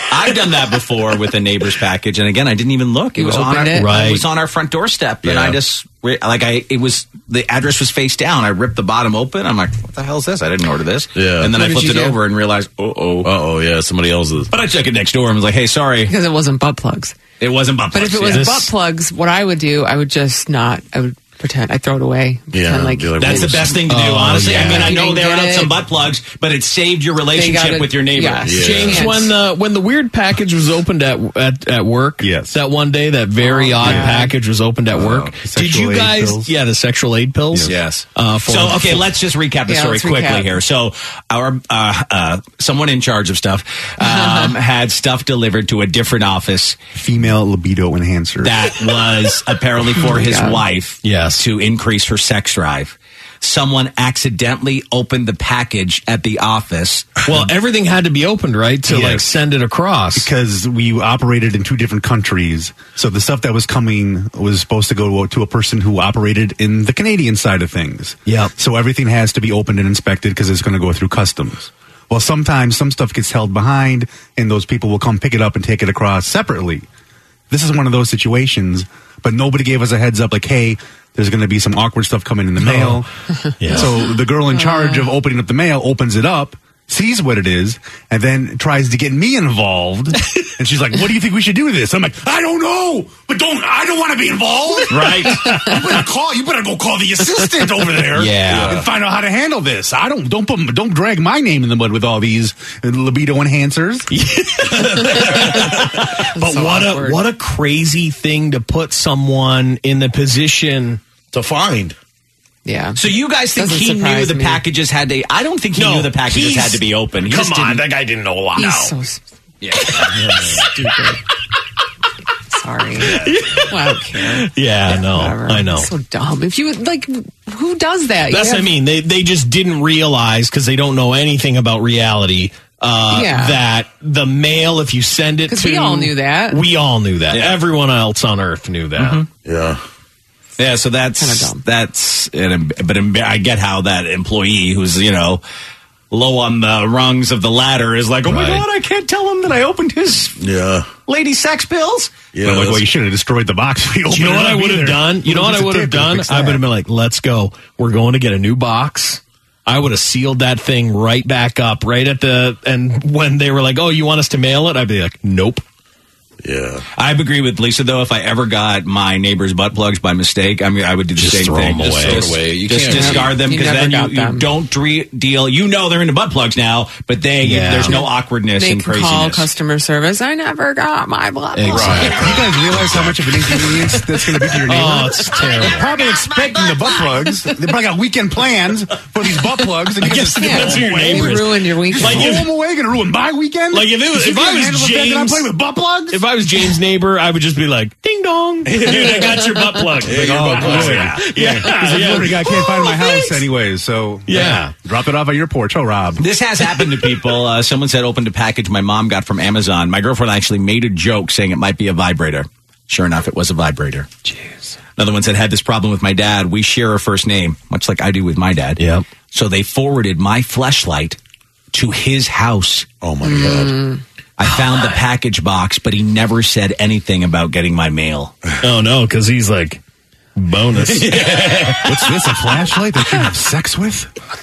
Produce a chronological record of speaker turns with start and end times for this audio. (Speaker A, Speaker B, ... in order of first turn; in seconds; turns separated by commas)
Speaker A: 0.1-13.3, Speaker B: 3.2-3.9, Speaker C: 3.7-4.2, Speaker D: 5.2-5.6, Speaker D: 11.2-11.5, Speaker B: 11.6-12.2, Speaker D: 13.2-14.5, Speaker A: 14.5-16.1, Speaker B: 16.1-17.1, Speaker A: 17.4-18.5, Speaker B: 17.9-23.6, Speaker C: 18.3-18.7, Speaker D: 22.5-23.8, Speaker A: 23.2-28.8, Speaker C: 23.9-25.0, Speaker B: 24.5-25.8, Speaker B: 27.3-29.3, Speaker D: 28.4-29.1, Speaker C: 28.6-39.1, Speaker E: 32.2-32.6, Speaker B: 33.4-34.3, Speaker E: 33.8-34.1, Speaker E: 35.4-36.5, Speaker A: 37.6-46.8, Speaker B: 39.7-40.6, Speaker E: 47.0-48.5, Speaker A: 48.4-57.3, Speaker B: 50.0-50.6, Speaker C: 51.0-51.4, Speaker C: 57.3-60.3, Speaker E: 58.9-59.2, Speaker E: 60.1-76.8, Speaker C: 68.3-68.5, Speaker E: 77.5-83.1, Speaker C: 82.6-83.0, Speaker C: 83.6-83.9, Speaker E: 83.6-104.1, Speaker B: 84.5-85.1, Speaker A: 94.9-95.6, Speaker C: 98.1-98.8, Speaker D: 98.4-98.9, Speaker C: 104.1-111.0, Speaker B: 106.3-107.2, Speaker D: 111.3-112.0, Speaker B: 112.6-113.0, Speaker A: 113.0-117.9, Speaker B: 113.5-114.6, Speaker C: 115.7-119.0, Speaker B: 118.6-119.2, Speaker A: 119.6-120.2, Speaker D: 120.0-120.6, Speaker B: 120.6-121.2, Speaker B: 122.5-128.7, Speaker C: 123.0-125.9, Speaker C: 128.3-139.2, Speaker B: 133.1-133.6, Speaker B: 135.5-136.6, Speaker A: 137.3-137.6, Speaker A: 139.0-139.3, Speaker D: 139.4-139.8, Speaker A: 140.6-145.4, Speaker B: 141.2-141.6, Speaker A: 146.1-150.4, Speaker C: 148.3-148.6, Speaker D: 150.4-150.9, Speaker A: 151.1-152.1, Speaker D: 152.3-152.8, Speaker E: 152.4-156.6, Speaker C: 154.1-165.6, Speaker D: 166.4-166.9, Speaker A: 167.0-179.5, Speaker C: 171.2-172.4, Speaker D: 171.8-173.3, Speaker B: 172.9-174.5, Speaker C: 177.4-178.0, Speaker B: 177.8-182.3, Speaker C: 181.5-183.8, Speaker D: 181.7-182.2, Speaker E: 182.1-196.2, Speaker C: 184.6-185.9, Speaker C: 190.0-192.5, Speaker B: 190.4-192.4, Speaker C: 193.7-195.5, Speaker C: 196.1-203.3, Speaker D: 198.7-199.4, Speaker B: 198.9-199.8, Speaker D: 200.0-201.7, Speaker E: 200.2-206.2, Speaker A: 200.6-201.2, Speaker C: 204.3-204.7, Speaker A: 206.2-214.1, Speaker A: 215.0-218.8, Speaker C: 218.8-219.1, Speaker A: 219.3-221.2, Speaker A: 221.7-222.9, Speaker D: 223.0-223.9, Speaker B: 223.2-224.0, Speaker A: 224.4-228.3, Speaker C: 228.6-229.8, Speaker C: 230.3-231.5, Speaker D: 230.8-232.0, Speaker E: 231.8-234.1